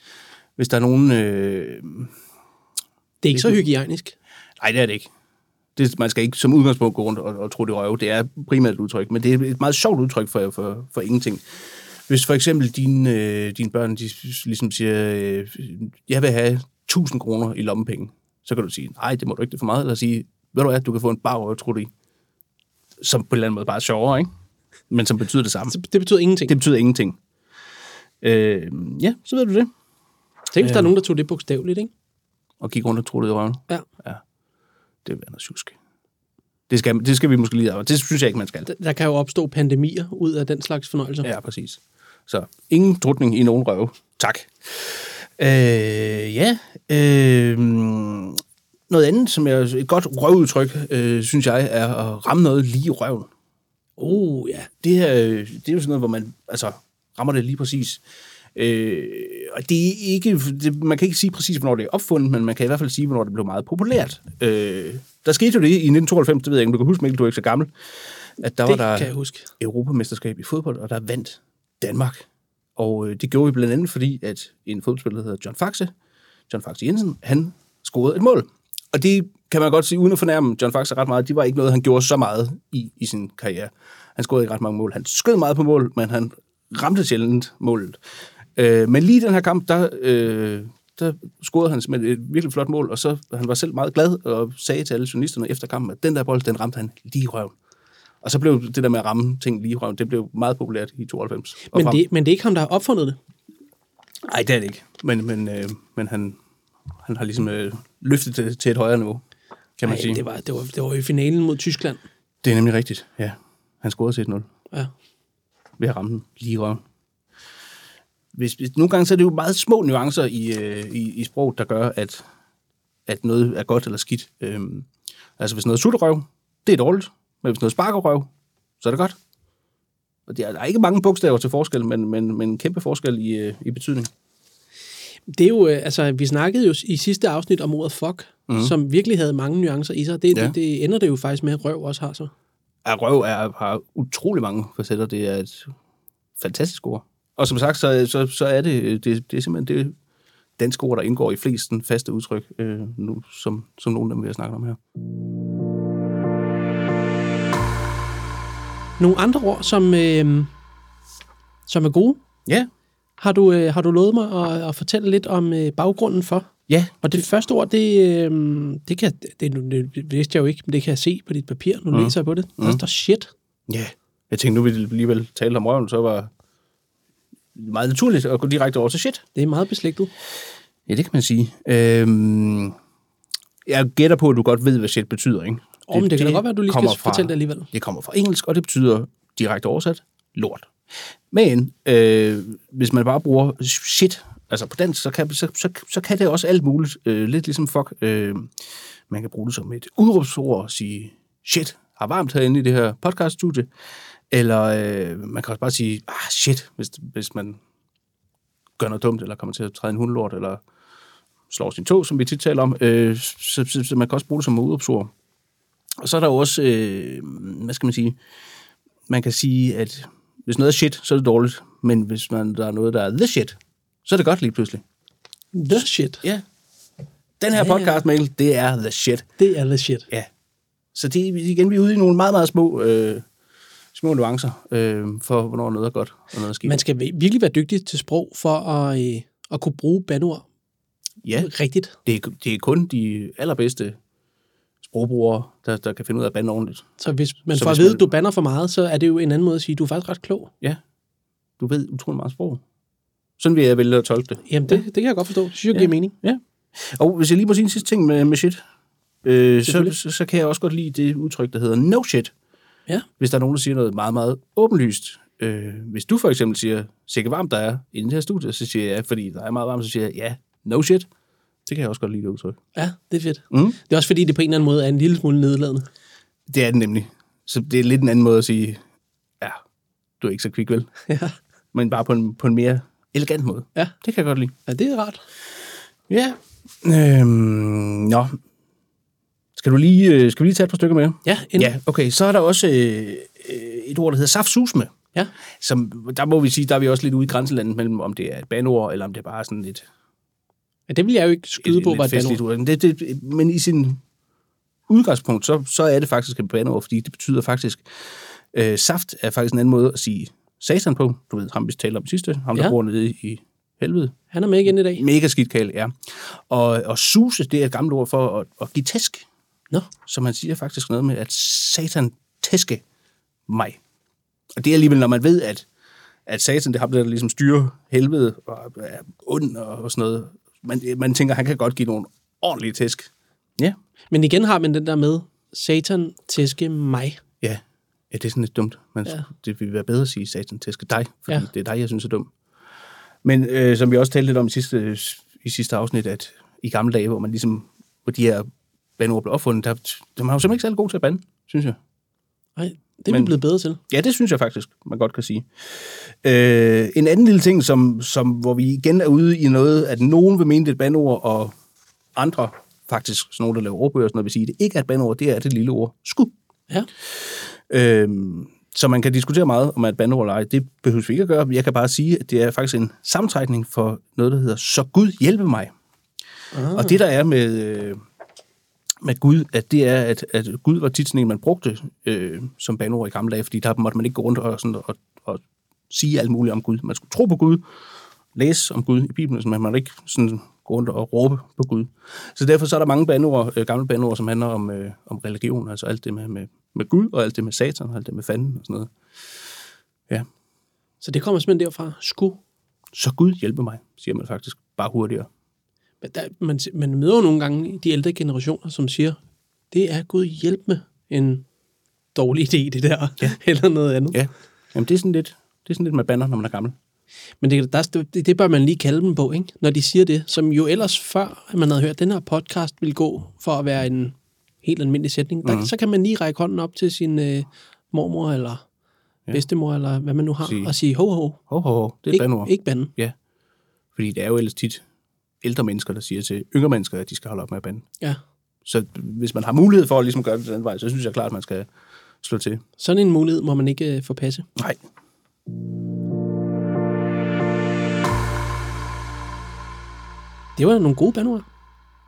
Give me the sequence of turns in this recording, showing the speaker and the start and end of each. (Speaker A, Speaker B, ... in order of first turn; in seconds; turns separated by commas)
Speaker A: 0.6-2.1, Speaker B: 3.2-4.1, Speaker A: 3.3-3.6, Speaker A: 4.6-5.1, Speaker A: 5.8-11.4, Speaker A: 12.1-21.9, Speaker A: 23.0-24.3, Speaker A: 24.9-25.8, Speaker B: 25.7-26.6, Speaker A: 26.5-27.2, Speaker A: 28.2-29.7, Speaker B: 30.5-31.9, Speaker A: 30.6-30.9, Speaker A: 32.6-34.2, Speaker A: 35.0-35.8, Speaker A: 36.7-38.7, Speaker B: 38.6-41.3, Speaker A: 41.2-53.3, Speaker B: 54.0-54.7, Speaker A: 54.8-58.0, Speaker A: 58.5-67.7, Speaker A: 68.4-72.2, Speaker B: 68.6-69.5, Speaker A: 72.8-75.9, Speaker A: 76.5-88.0, Speaker A: 88.5-97.5, Speaker A: 98.2-102.0, Speaker B: 101.7-103.2, Speaker A: 104.2-106.4, Speaker A: 107.0-109.2, Speaker A: 109.8-110.2, Speaker B: 109.8-112.0, Speaker A: 112.4-114.5, Speaker A: 115.8-116.8, Speaker A: 118.3-122.2, Speaker A: 123.1-128.3, Speaker A: 128.8-129.2, Speaker A: 130.3-134.1, Speaker B: 135.3-142.3, Speaker A: 138.5-138.7, Speaker A: 142.8-145.7, Speaker A: 146.4-149.9, Speaker A: 150.6-154.8, Speaker B: 159.0-160.5, Speaker B: 161.7-162.2, Speaker B: 163.2-166.5, Speaker A: 166.7-167.2, Speaker B: 167.0-173.3, Speaker A: 171.9-172.8, Speaker A: 173.7-176.3, Speaker A: 177.5-179.2, Speaker B: 179.3-180.1, Speaker A: 180.9-182.8, Speaker A: 183.7-190.7, Speaker B: 185.9-187.7, Speaker A: 191.3-198.5, Speaker A: 199.1-203.7, Speaker A: 204.3-207.6, Speaker A: 208.8-210.6, Speaker A: 211.5-215.1, Speaker A: 216.0-218.2, Speaker A: 219.1-224.8, Speaker B: 225.5-226.2, Speaker A: 227.4-229.3, Speaker B: 227.5-228.0, Speaker B: 229.4-230.1, Speaker A: 230.9-233.2, Speaker A: 233.9-236.8, Speaker B: 236.6-240.4, Speaker A: 241.2-241.5, Speaker B: 241.4-241.9, Speaker A: 242.0-244.0, Speaker A: 244.8-248.1, Speaker B: 247.0-250.5, Speaker A: 251.6-252.6, Speaker A: 253.4-254.8, Speaker B: 254.5-256.1, Speaker A: 255.7-258.6, Speaker A: 259.2-262.3, Speaker B: 259.6-259.9, Speaker A: 263.2-271.1, Speaker A: 271.6-272.6, Speaker B: 272.8-275.9, Speaker A: 273.5-273.8, Speaker A: 276.5-278.8, Speaker A: 280.2-280.9, Speaker B: 281.1-281.4, Speaker A: 281.7-284.5, Speaker B: 284.6-285.2, Speaker A: 286.1-288.4, Speaker A: 289.6-294.9, Speaker B: 291.2-291.7, Speaker A: 295.6-299.9, Speaker B: 300.9-302.4, Speaker A: 301.5-304.0, Speaker A: 304.9-307.9, Speaker A: 308.5-314.1, Speaker B: 314.3-315.0, Speaker A: 314.8-319.2, Speaker A: 320.0-322.8, Speaker A: 323.5-323.8, Speaker A: 324.6-325.6, Speaker A: 326.3-333.8, Speaker B: 334.1-337.2, Speaker A: 337.4-342.3, Speaker A: 343.2-348.5, Speaker A: 349.0-351.8, Speaker B: 352.6-353.8, Speaker A: 353.1-353.3, Speaker A: 353.9-361.5, Speaker A: 362.1-366.3, Speaker A: 367.2-375.7, Speaker B: 376.5-377.0, Speaker A: 376.7-378.0, Speaker A: 379.0-387.6, Speaker A: 388.3-398.9, Speaker B: 401.0-402.4, Speaker A: 402.9-405.3, Speaker B: 406.0-409.2, Speaker B: 409.7-411.4, Speaker B: 412.1-414.2, Speaker A: 414.1-416.7, Speaker B: 417.4-428.6, Speaker A: 425.4-425.7, Speaker B: 429.3-431.4, Speaker A: 430.4-430.7, Speaker A: 431.5-433.1, Speaker B: 432.1-432.9, Speaker A: 433.9-434.8, Speaker A: 435.4-437.9, Speaker A: 438.6-441.7, Speaker A: 442.2-442.6, Speaker B: 442.8-444.5, Speaker A: 444.6-444.8, Speaker B: 450.6-451.4